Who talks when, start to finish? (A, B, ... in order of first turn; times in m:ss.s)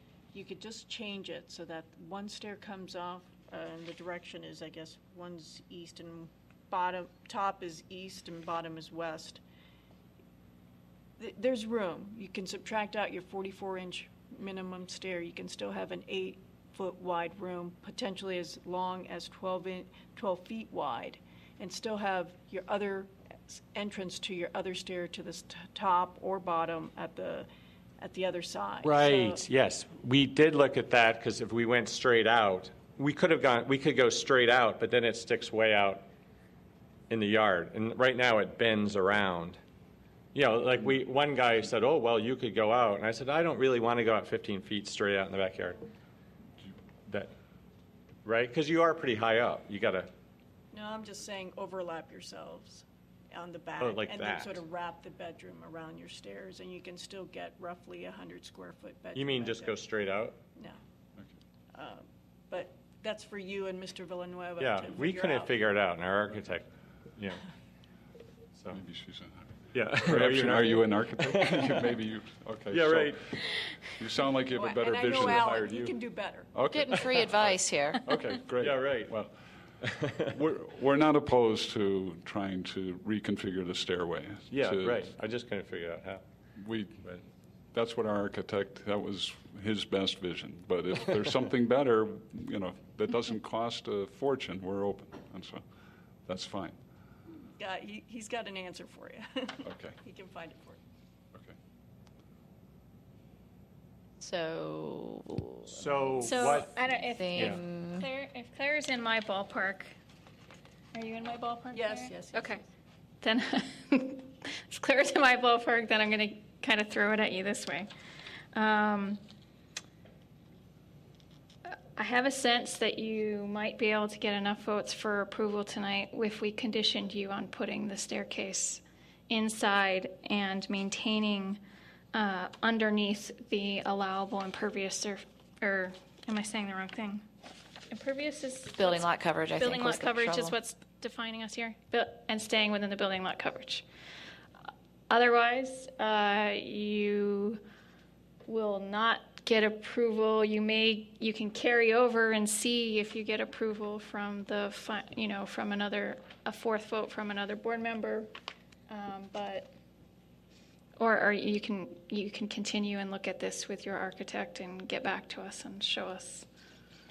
0:00.3-0:09.4 A
0:11.2-0:27.5 A
0:28.0-0:29.4 A
0:28.8-0:36.0 B
0:37.1-0:39.6 B
0:40.3-0:45.8 B
0:47.1-0:47.3 B
0:48.2-0:50.1 B
0:50.7-0:59.8 A
0:53.8-0:54.6 B
0:59.1-1:00.4 B
1:01.7-1:05.6 A
1:04.6-1:07.4 B
1:08.6-1:08.8 B
1:08.7-1:13.2 C
1:09.7-1:12.0 B
1:12.7-1:13.4 B
1:13.9-1:15.5 C
1:14.5-1:16.5 A
1:15.2-1:15.9 B
1:16.5-1:17.3 C
1:16.7-1:18.0 D
1:17.0-1:17.6 B
1:18.0-1:19.3 C
1:18.1-1:19.1 B
1:19.8-1:20.2 B
1:20.2-1:25.1 C
1:24.5-1:26.2 B
1:26.6-1:27.1 C
1:27.7-1:35.6 C
1:36.2-1:36.8 C
1:37.6-1:40.8 A
1:39.6-1:40.0 C
1:44.2-1:45.8 D
1:45.7-1:47.6 B
1:46.2-1:49.9 E
1:46.3-1:48.1 D
1:50.9-1:52.6 E
1:51.7-1:52.6 A
1:53.2-1:57.9 E
1:58.5-1:59.2 E
2:01.7-2:11.6 E
2:12.1-2:17.2 E
2:17.9-2:23.8 E
2:18.7-2:20.6 D
2:25.1-2:27.6 E
2:28.4-2:38.3 E
2:38.9-2:39.7 E
2:41.0-2:46.4 E